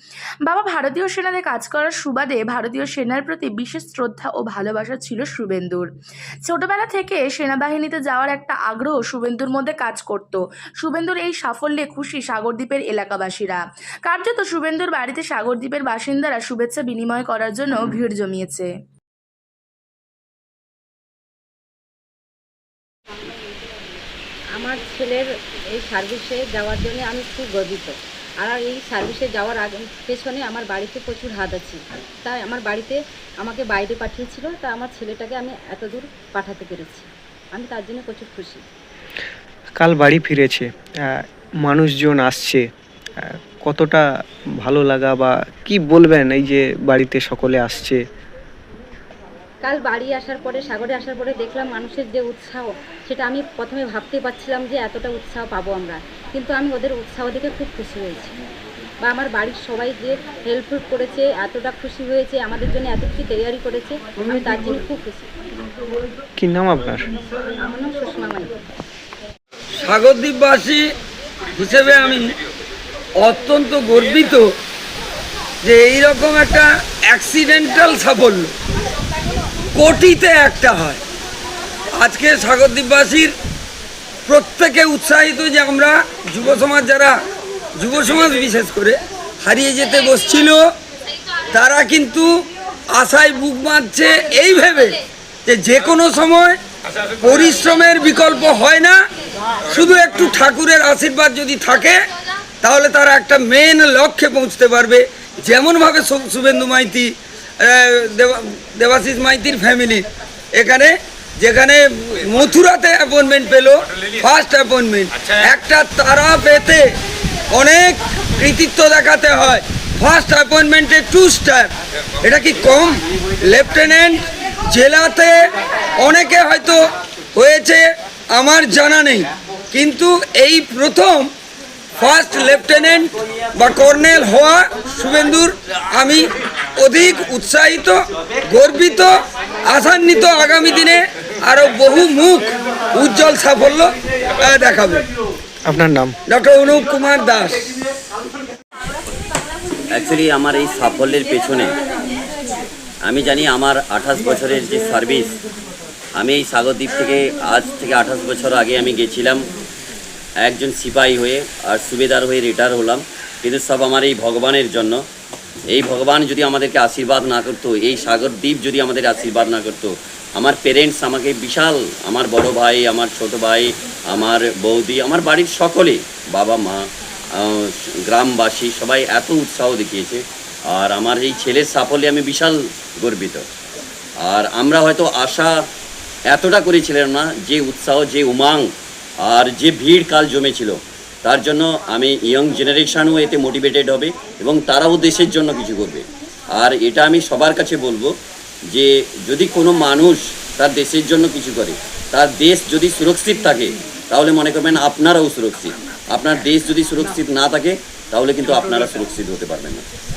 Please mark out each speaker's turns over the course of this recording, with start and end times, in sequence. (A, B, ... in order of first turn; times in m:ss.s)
0:00.4-0:05.9 A
0:06.4-0:18.7 A
0:24.6-0:38.6 B
0:39.8-0:42.7 C
0:43.2-0:44.0 C
0:44.6-0:48.0 C
0:49.6-0:58.3 B
0:59.0-1:05.3 B
1:06.4-1:07.0 C
1:07.6-1:08.5 B
1:09.8-1:10.9 D
1:11.6-1:12.3 D
1:13.2-1:14.5 D
1:15.6-1:18.5 D
1:19.7-1:21.0 D
1:21.9-1:23.3 D
1:24.3-1:27.2 D
1:27.8-1:30.7 D
1:31.5-1:36.6 D
1:37.2-1:39.0 D
1:39.7-1:42.0 D
1:42.6-1:57.0 D
1:57.5-2:06.8 D
2:07.3-2:11.3 D
2:12.0-2:25.1 D
2:25.7-2:26.2 C
2:26.3-2:27.7 D
2:29.9-2:31.7 E
2:33.0-2:35.3 E
2:36.2-2:39.4 E
2:40.4-2:45.0 E
2:45.7-3:03.4 E
3:04.2-3:05.5 E
3:06.3-3:08.7 E
3:09.2-3:18.1 E
3:18.7-3:29.8 E